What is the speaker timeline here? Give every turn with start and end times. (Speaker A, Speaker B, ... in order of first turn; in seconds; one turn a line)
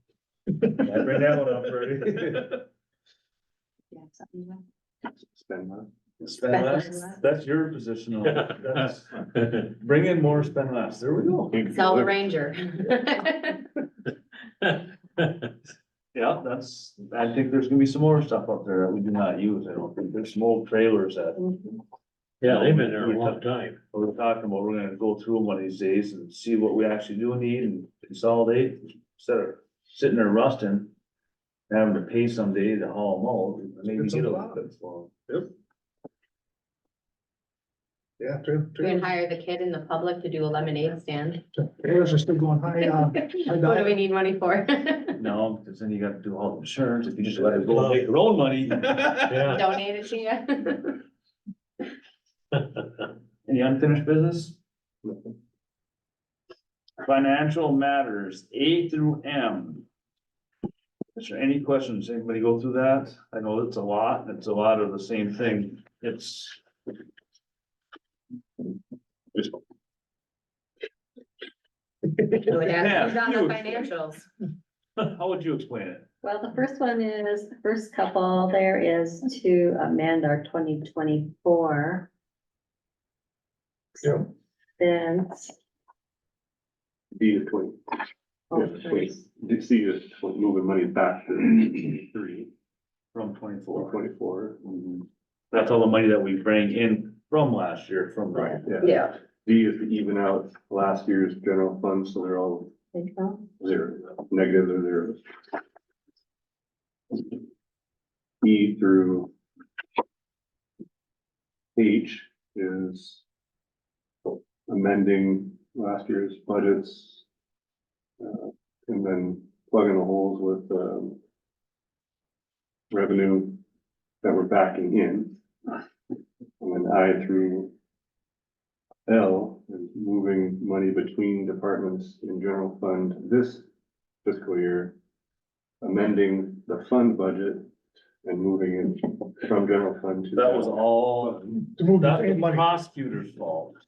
Speaker A: 0.8-2.6
Speaker B: 3.9-4.6
Speaker C: 5.3-5.9
Speaker A: 6.2-11.6
Speaker B: 6.5-7.2
Speaker C: 11.5-12.2
Speaker D: 11.7-13.7
Speaker A: 16.1-21.4
Speaker B: 21.4-21.8
Speaker E: 22.4-23.8
Speaker A: 22.4-23.4
Speaker A: 23.9-30.9
Speaker A: 31.7-35.1
Speaker F: 34.0-34.6
Speaker F: 38.2-39.1
Speaker D: 38.8-41.4
Speaker F: 41.7-44.0
Speaker D: 42.8-45.1
Speaker A: 45.1-49.5
Speaker E: 47.7-48.1
Speaker E: 49.2-49.6
Speaker D: 49.4-51.0
Speaker A: 53.5-54.6
Speaker A: 57.0-59.8
Speaker A: 61.1-66.6
Speaker D: 72.5-74.3
Speaker A: 72.5-73.9
Speaker A: 75.0-76.0
Speaker B: 76.2-82.1
Speaker B: 84.8-85.5
Speaker C: 87.1-87.9
Speaker B: 88.5-89.2
Speaker C: 88.5-92.5
Speaker A: 93.1-94.0
Speaker C: 93.7-94.6
Speaker A: 94.6-98.6
Speaker C: 98.3-102.7
Speaker D: 98.8-99.1
Speaker B: 102.9-103.5
Speaker C: 103.6-105.2
Speaker C: 108.4-109.3
Speaker C: 111.8-113.2
Speaker C: 114.2-117.2
Speaker C: 118.2-121.2
Speaker C: 122.9-123.6
Speaker C: 124.2-125.4
Speaker C: 126.6-127.7
Speaker C: 129.1-133.7
Speaker C: 134.2-135.0
Speaker C: 135.8-137.7
Speaker C: 138.2-141.6
Speaker A: 140.3-143.7
Speaker F: 141.7-142.7